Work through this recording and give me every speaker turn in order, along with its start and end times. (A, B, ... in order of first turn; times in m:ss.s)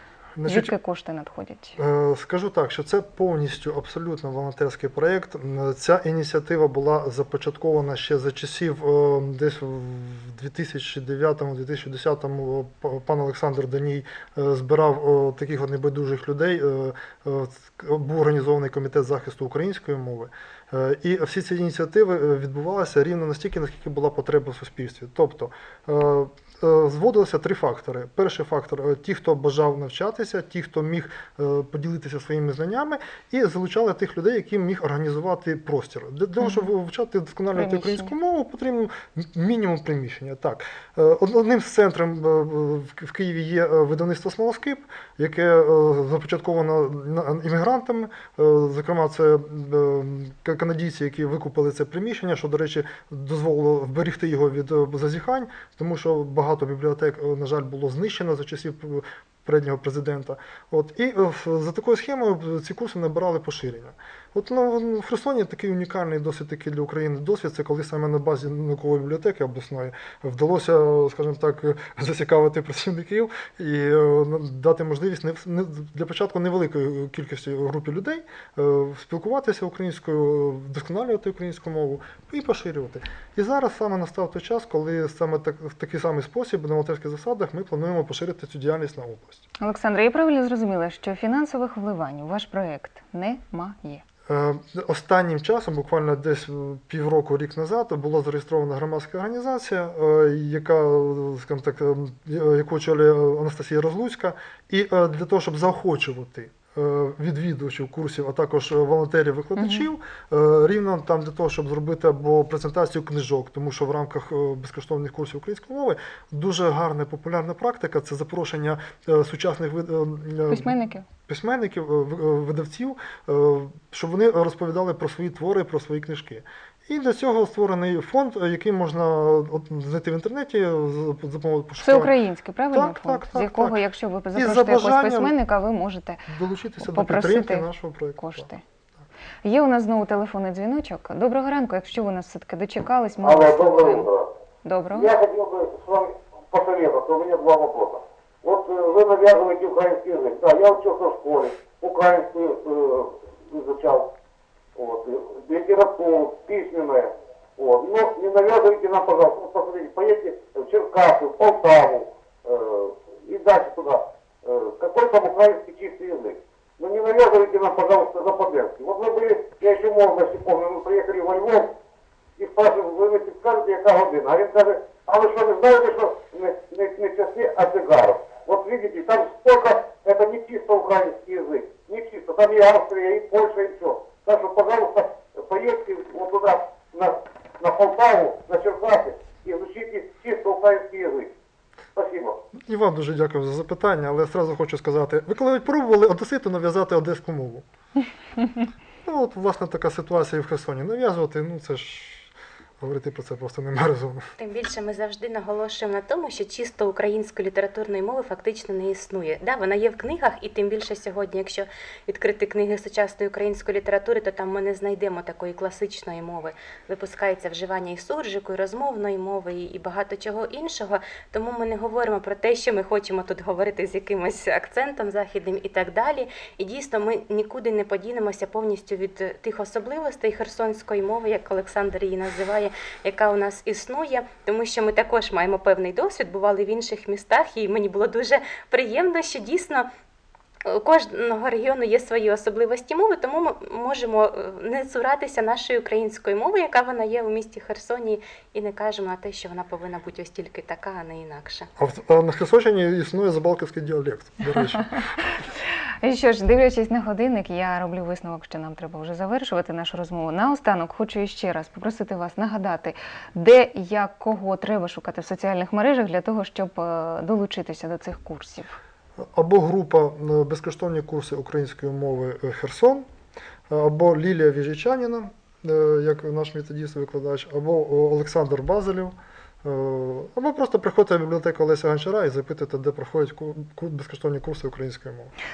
0:00.4-0:00.8 A
0:00.4-0:01.8 B
0:01.8-1:29.5 A
0:36.4-0:36.7 B
0:37.5-0:38.1 B
1:29.6-1:34.0 B
1:34.3-2:00.7 A
1:49.6-1:49.9 B
2:00.5-2:01.0 B
2:01.3-2:12.2 A
2:11.8-2:16.3 B
2:12.7-2:13.8 A
2:14.4-2:15.4 A
2:16.3-2:18.5 A
2:16.8-2:18.6 B
2:19.4-2:24.1 B
2:23.2-2:24.3 C
2:24.6-2:25.2 B
2:24.9-2:34.1 C
2:34.8-2:51.7 C
2:52.4-3:11.3 C
3:12.0-3:12.4 C
3:12.7-3:17.6 A
3:19.0-3:24.2 A
3:24.4-3:59.9 D
4:00.7-4:11.7 D
4:11.8-4:15.0 A
4:16.0-4:28.8 B
4:29.3-4:33.1 A
4:33.7-4:45.3 A